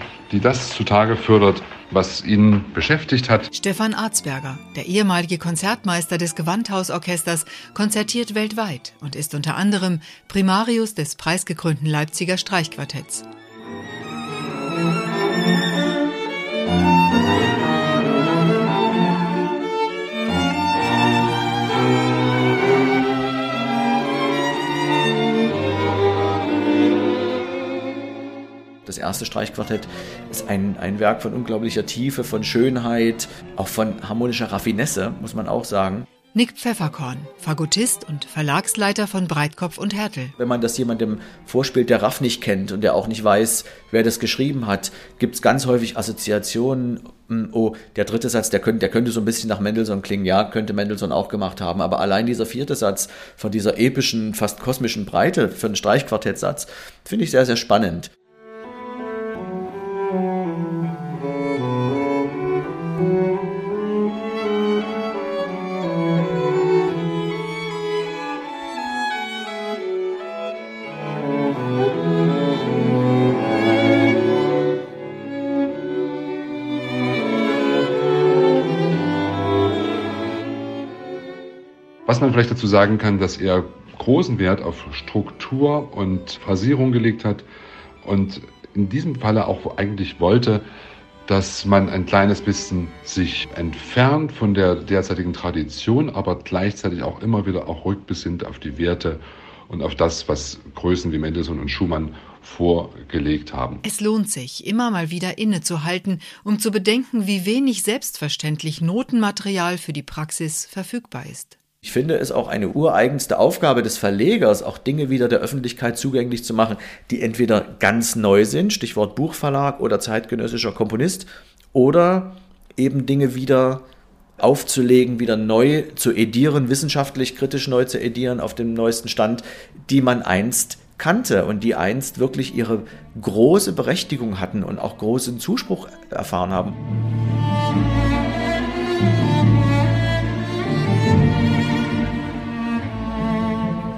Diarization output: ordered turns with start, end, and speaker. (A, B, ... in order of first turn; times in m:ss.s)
0:00.3-0:03.5 A
0:03.5-0:13.3 B
0:28.9-0:36.1 C
0:36.3-0:40.3 B
0:40.4-0:58.1 C
1:22.1-1:27.5 A
1:28.0-1:30.6 A
1:31.3-1:43.8 A
1:43.8-1:51.6 B
1:51.8-2:03.8 C
2:04.4-2:16.8 C